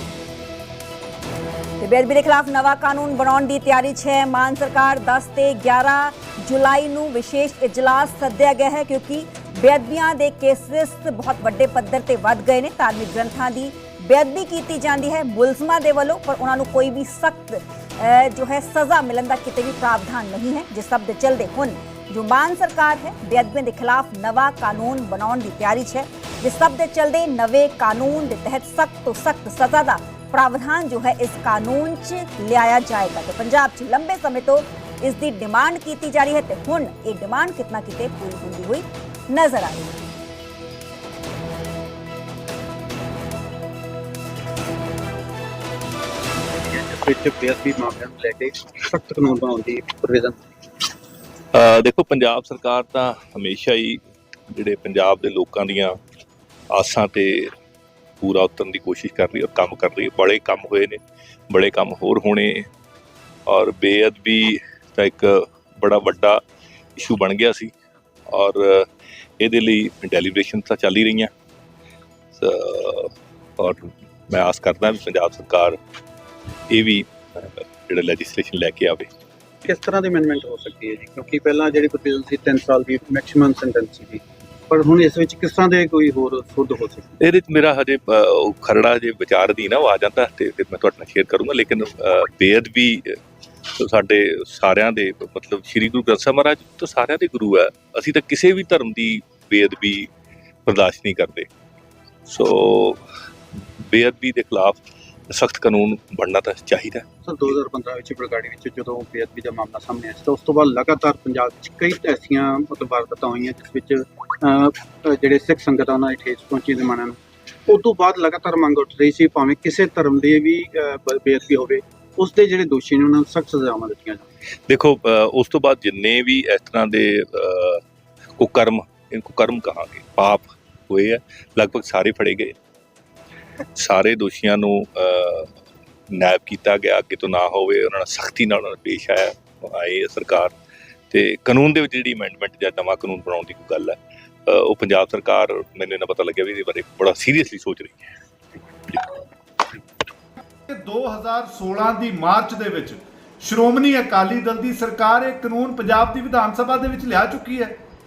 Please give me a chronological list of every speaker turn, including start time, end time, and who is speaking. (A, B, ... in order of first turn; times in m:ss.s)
0:01.8-0:40.0 A
0:46.6-0:50.5 B
0:51.5-0:54.0 C
0:54.5-0:56.0 C
0:56.7-0:57.5 C
0:58.2-1:02.7 C
1:03.5-1:06.4 C
1:07.0-1:07.7 C
1:08.3-1:08.9 C
1:09.4-1:11.3 C
1:12.4-1:15.8 C
1:16.7-1:19.1 C
1:19.6-1:27.2 B
1:27.2-1:33.1 C
1:33.8-1:40.1 C
1:40.6-1:41.5 C
1:42.3-1:43.0 C
1:43.9-1:44.8 C
1:45.3-1:47.0 C
1:47.2-2:04.2 B
2:04.7-2:07.8 C
2:08.4-2:12.5 C
2:13.8-2:15.5 C
2:16.1-2:20.5 C
2:21.1-2:28.1 C
2:28.9-2:29.2 C
2:30.7-2:37.8 D